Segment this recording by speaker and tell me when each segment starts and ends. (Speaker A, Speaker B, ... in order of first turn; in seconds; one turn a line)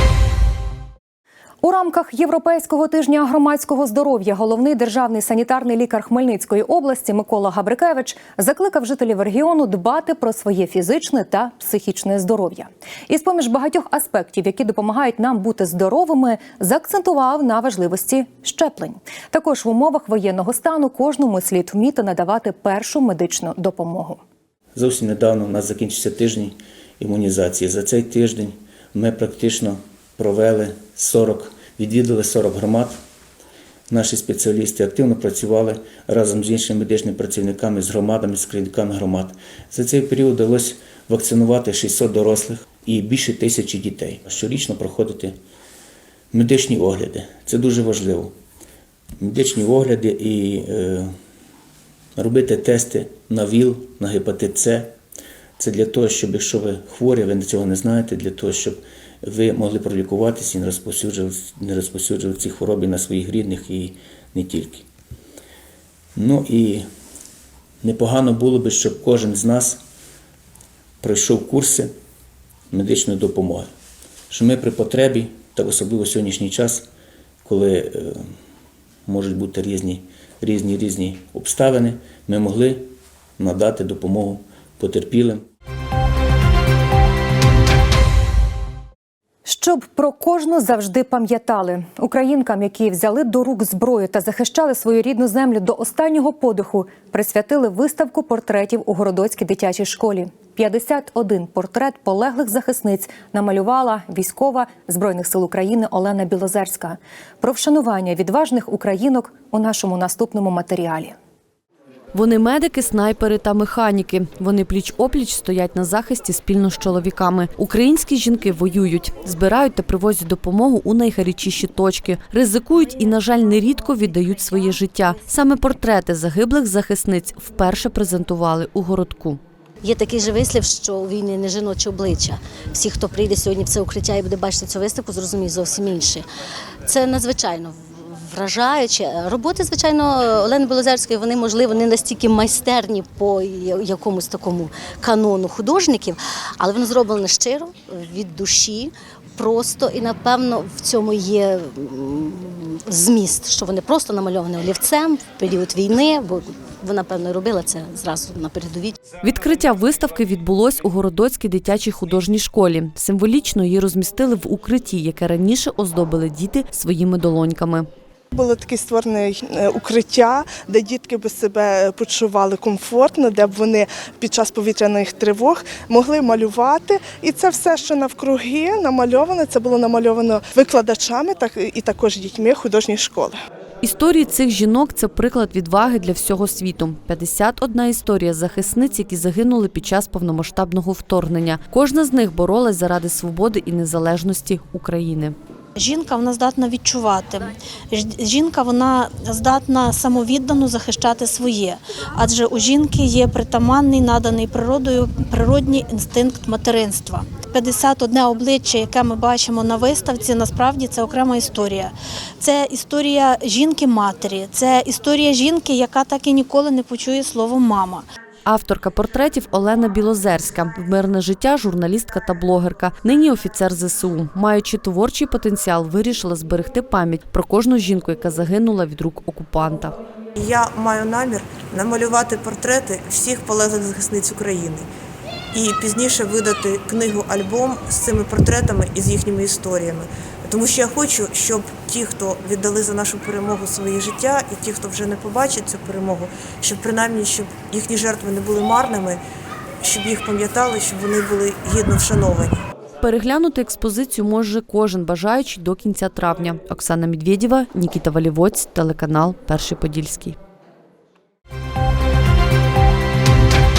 Speaker A: 1.6-24.2
Speaker B: 24.8-33.0
Speaker B: 33.9-45.4
Speaker B: 46.3-48.3
Speaker B: 49.2-51.1
Speaker B: 52.2-54.9
Speaker B: 55.6-64.8
Speaker B: 66.2-66.8
Speaker B: 67.8-69.8
Speaker B: 71.0-71.9
Speaker B: 72.7-73.7
Speaker B: 74.3-76.8
Speaker B: 77.4-78.2
Speaker B: 79.1-85.4
Speaker A: 89.5-111.1
Speaker C: 112.1-129.4
Speaker D: 129.9-136.2
Speaker E: 135.2-135.9
Speaker D: 136.9-137.7
Speaker D: 138.4-147.7
Speaker D: 148.2-148.9
Speaker D: 149.4-151.6
Speaker D: 153.0-156.4
Speaker D: 156.9-158.7
Speaker C: 159.2-167.9
Speaker F: 168.3-183.3
Speaker C: 183.8-195.4
Speaker E: 195.8-218.1
Speaker C: 218.4-230.0
Speaker G: 230.4-234.9
Speaker G: 235.5-249.2
Speaker G: 249.8-252.6
Speaker C: 253.0-260.4